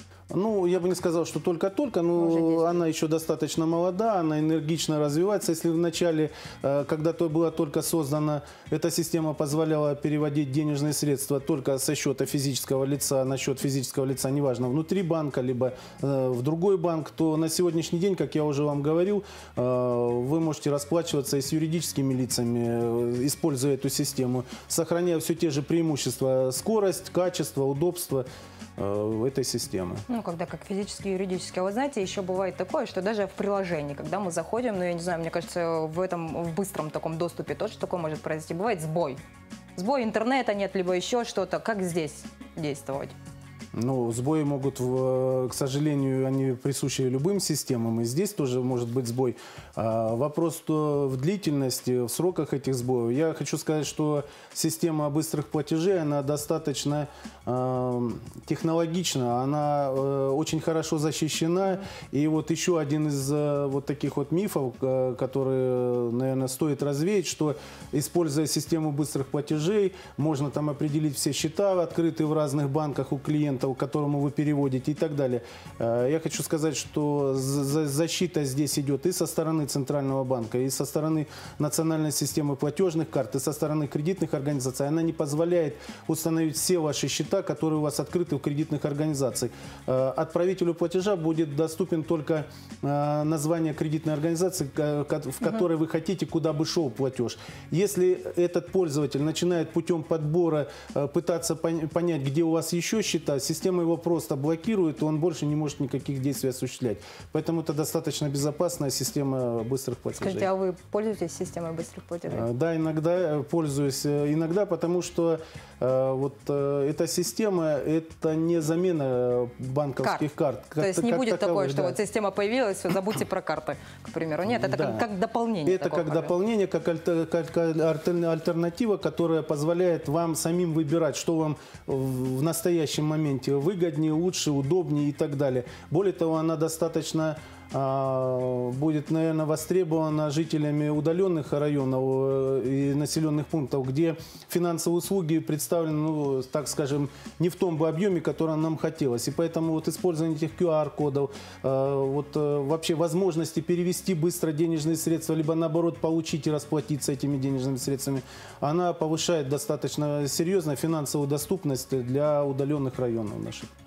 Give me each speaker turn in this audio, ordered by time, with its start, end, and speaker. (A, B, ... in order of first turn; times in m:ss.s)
0:00.3-0:30.0 A
0:02.2-0:02.8 B
0:30.1-0:39.2 B
0:39.8-0:43.2 B
0:43.7-1:50.5 A
1:50.2-1:52.5 B
1:52.3-2:02.0 A
2:00.0-2:00.3 B
2:00.8-2:06.3 B
2:04.5-2:05.1 A
2:05.6-2:43.7 A